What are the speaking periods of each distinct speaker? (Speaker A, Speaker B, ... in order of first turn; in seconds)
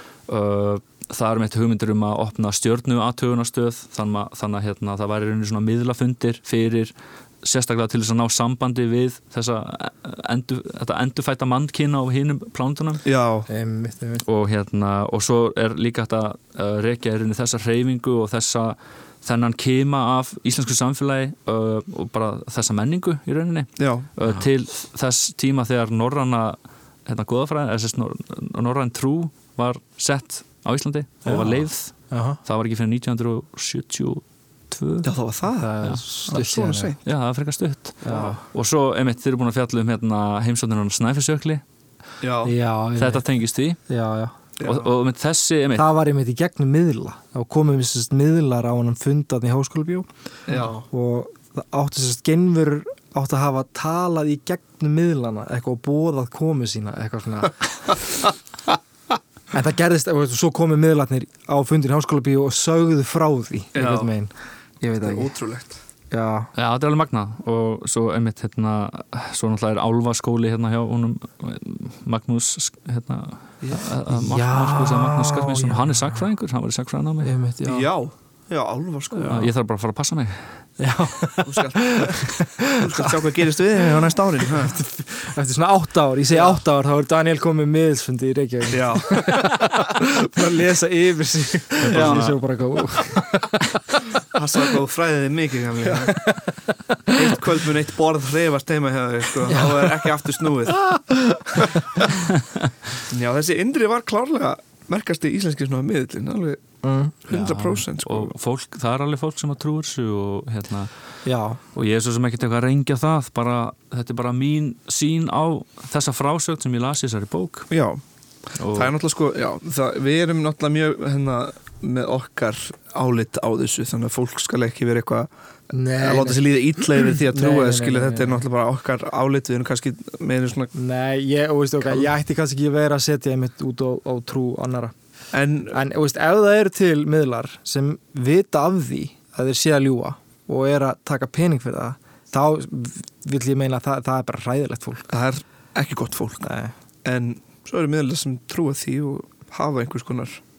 Speaker A: 0.3-13.1, 14.2-35.1, 35.8-36.3, 37.0-41.6, 43.0-43.8, 44.6-45.9, 66.5-77.3, 79.3-80.6, 91.8-92.4, 107.3-111.2, 111.7-117.7, 118.6-118.9
Speaker B: 13.1-13.5, 23.8-24.1, 35.0-37.0, 38.1-38.4, 42.2-42.5, 44.6-44.9, 50.5-50.8, 63.7-64.1, 65.0-65.8, 77.7-79.5, 81.4-84.8, 88.7-89.5, 91.9-92.3, 94.3-96.2, 97.1-101.0, 103.1-106.6, 107.2-108.3, 117.7-118.0, 118.7-125.3, 126.0-130.7, 135.3-135.8, 145.1-146.5, 147.0-150.4
Speaker C: 13.5-14.2, 31.2-32.4, 35.6-37.0, 38.0-38.4, 42.5-43.2, 43.9-44.3, 45.8-58.0, 59.5-65.4, 66.1-66.5, 74.1-76.1, 77.2-77.9, 80.8-83.2, 84.5-93.6, 95.9-97.4, 99.5-100.1, 100.9-102.0, 106.8-107.2, 111.2-111.6, 125.7-128.4, 130.7-134.9, 135.7-145.1, 146.4-146.7